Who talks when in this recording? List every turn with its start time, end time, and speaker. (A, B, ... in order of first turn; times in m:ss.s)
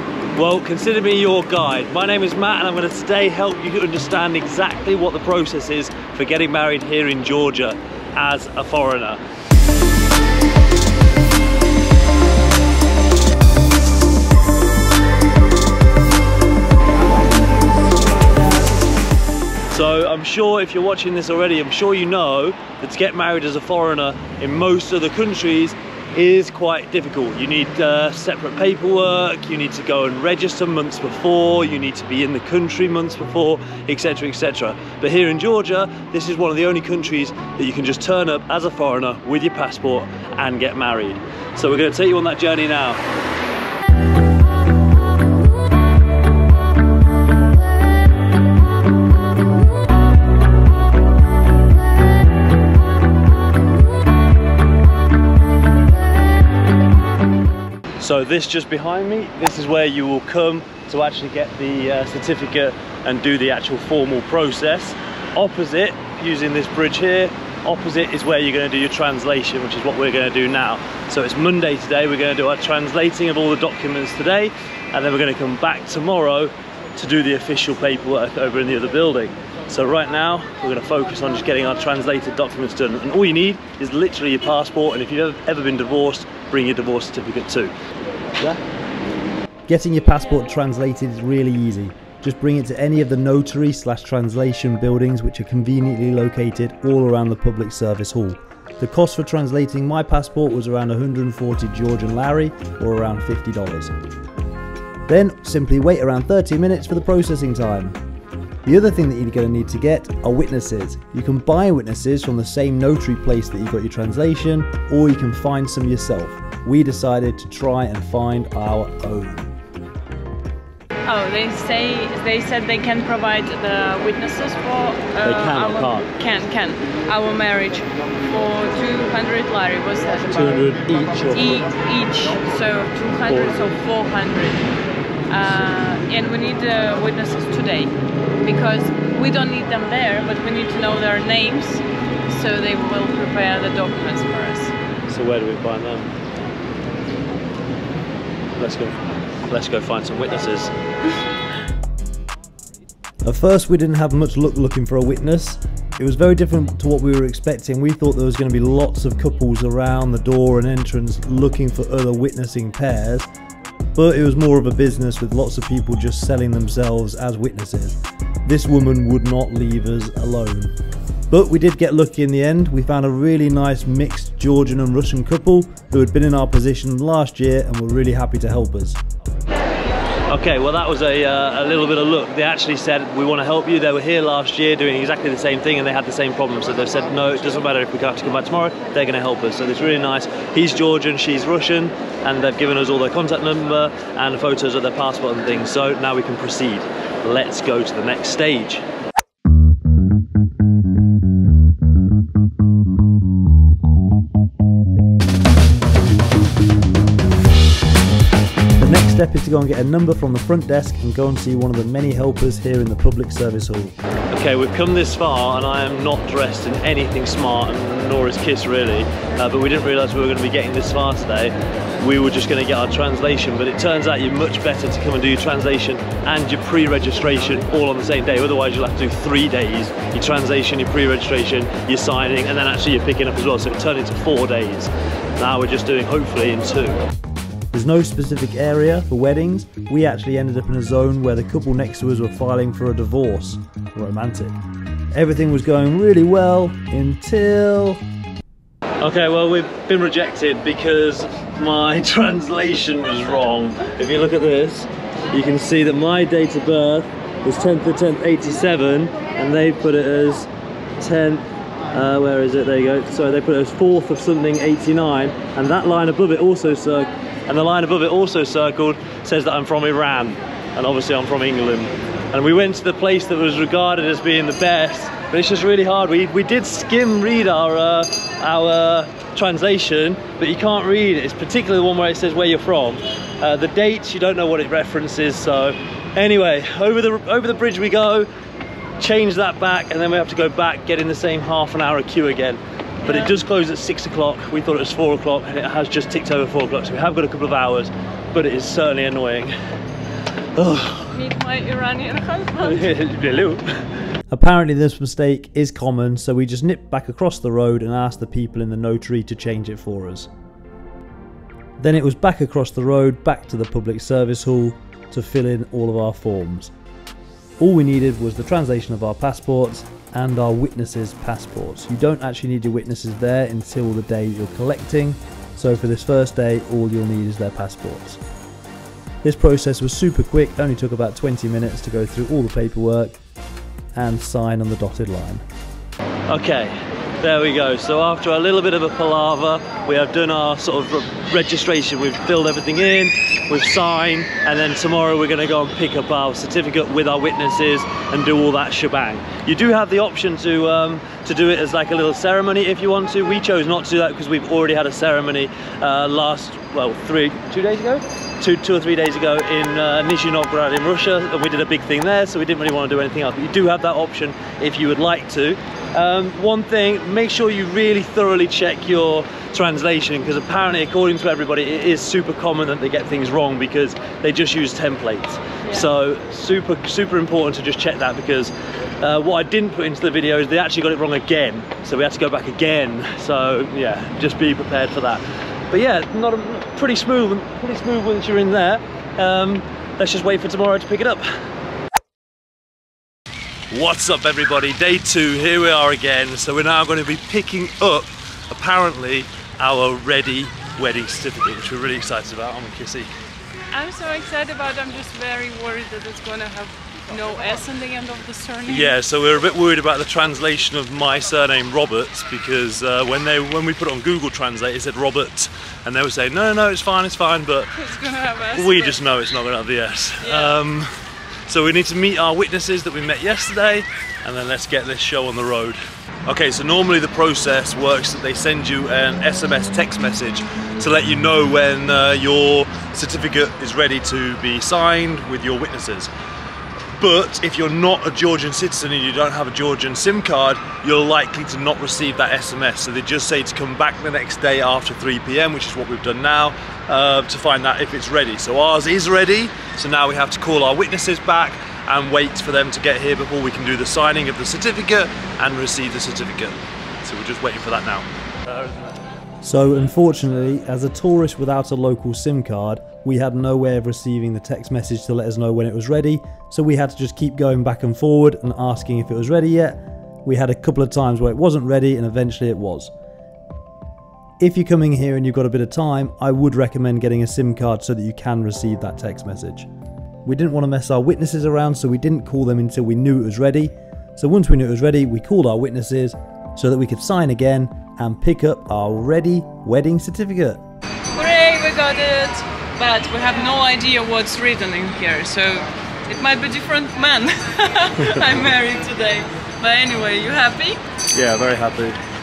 0:00.3-0:09.2 A
0:19.7-0:43.0 A
0:58.0-1:27.7 A
1:29.7-1:43.9 B
1:45.1-1:48.0 B
1:48.6-1:59.5 B
2:01.0-2:10.4 C
2:05.2-2:06.1 A
2:10.3-2:11.6 A
2:11.3-2:14.7 C
2:15.3-2:24.7 C
2:25.1-2:26.1 A
2:28.6-2:30.7 A
2:33.2-2:43.3 B
2:44.0-2:50.7 B
2:51.3-2:59.0 B
3:00.3-3:18.8 A
3:28.8-3:33.9 B
3:34.3-3:57.0 A
3:57.7-4:04.6 B
4:05.1-4:08.0 B
4:09.0-4:20.5 A
4:21.0-4:48.3 A
4:49.0-4:59.5 A
4:53.0-4:53.3 C
5:00.6-5:01.2 A
5:01.1-5:02.9 C
5:02.6-5:03.6 A
5:04.3-5:10.3 B
5:11.8-5:16.7 B
5:17.6-5:28.2 B
5:29.2-5:33.2 B
5:33.9-5:35.4 B
5:36.3-6:31.3 A
6:33.7-6:43.1 A
6:43.7-6:48.9 C
6:48.6-6:57.7 A
6:57.7-6:59.0 C
6:58.5-7:00.9 A
7:00.2-7:00.5 C
7:01.5-7:16.1 A
7:17.0-7:39.0 A
7:39.4-7:52.9 B
7:54.4-7:59.7 B
8:00.2-8:10.6 B
8:11.1-8:20.8 C
8:21.1-8:22.0 A